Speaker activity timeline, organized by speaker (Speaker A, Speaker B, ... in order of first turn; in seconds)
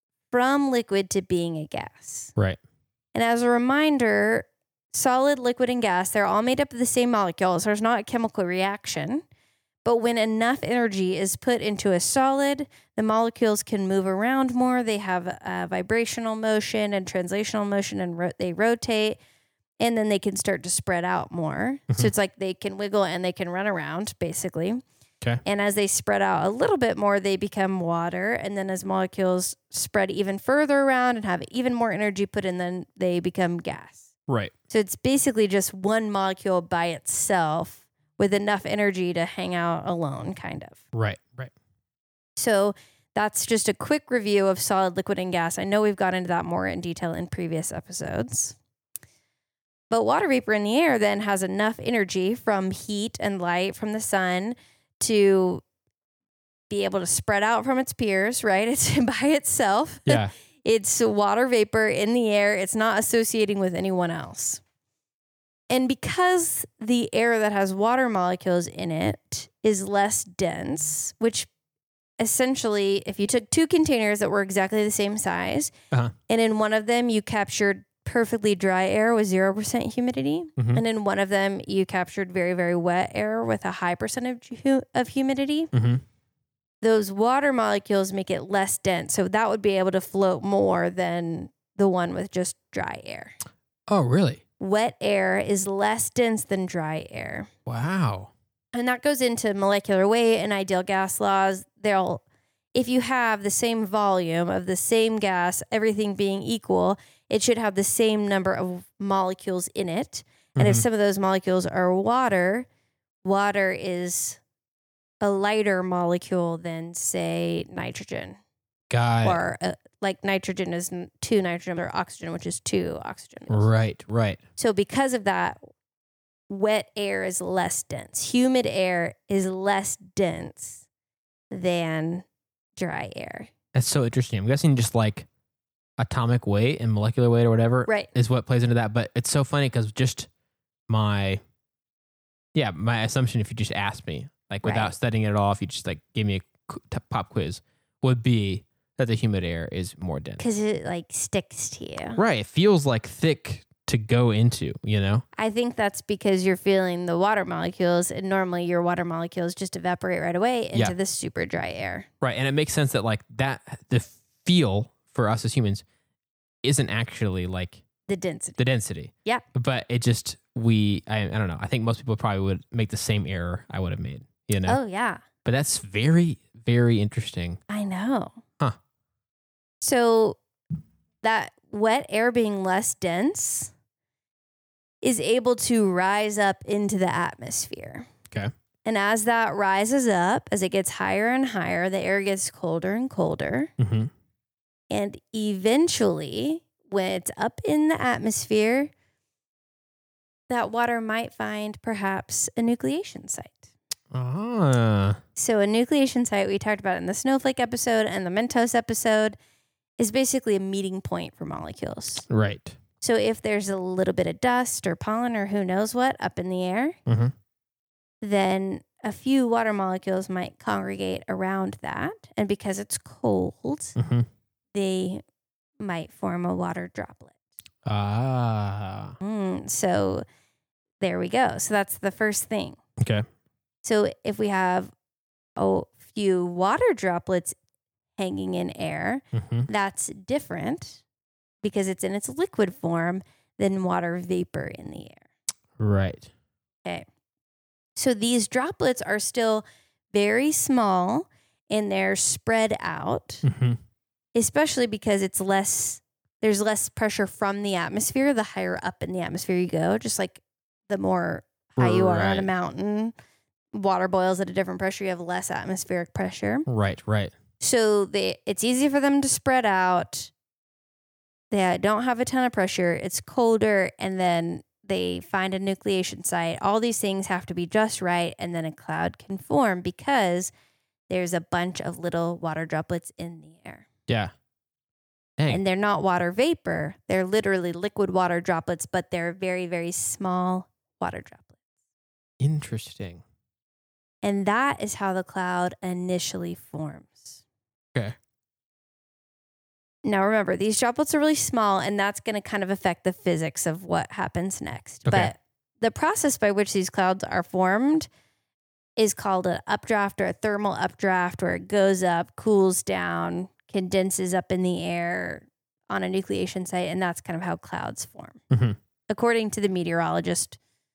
Speaker A: 0.3-2.3, 3.1-9.2, 9.8-19.2, 19.8-24.8, 25.4-34.1, 34.7-40.8, 42.4-48.6, 49.9-55.6, 56.7-64.6, 65.7-71.5, 72.2-75.7, 76.3-85.7, 86.8-93.4, 94.6-97.5, 98.7-102.2, 102.7-112.7, 113.2-114.4, 115.2-118.4, 119.2-123.7, 124.6-125.6, 126.5-130.8, 131.5-132.2, 132.8-133.5, 144.6-144.9, 150.4-152.2, 155.4-162.1, 168.1-168.6, 174.6-175.2, 177.7-178.4, 179.8-180.4, 181.2-183.7, 185.0-188.1, 188.8-193.7, 194.9-198.9, 200.5-203.7, 205.4-209.4, 210.0-212.2, 213.0-217.0, 218.2-224.0, 224.7-225.2, 225.8-227.3, 229.2-230.2, 231.0-232.8, 233.8-234.9, 235.6-237.5, 238.2-241.0, 241.6-245.2, 248.0-253.4, 254.3-263.1, 263.7-266.7, 267.6-270.3, 271.5-280.5, 281.1-283.9, 285.5-291.5, 294.2-297.4, 300.0-308.1, 309.0-318.4, 319.1-320.6
Speaker B: 34.3-34.5, 40.9-41.5, 60.1-60.3, 80.6-80.8, 85.7-86.0, 93.9-94.4, 97.7-98.3, 110.6-110.8, 118.9-119.4, 123.5-124.4, 133.7-135.3, 136.0-140.3, 140.9-141.4, 142.6-150.4, 152.2-155.2, 162.2-165.8, 166.6-167.8, 168.6-174.8, 175.4-177.6, 193.8-194.1, 204.1-205.2, 212.3-212.8, 217.1-217.3, 224.0-224.3, 227.8-229.1, 233.0-233.2, 239.3-239.7, 245.8-246.3, 253.4-253.8, 261.8-262.5, 266.7-267.3, 292.4-293.2, 305.0-305.3, 318.5-318.8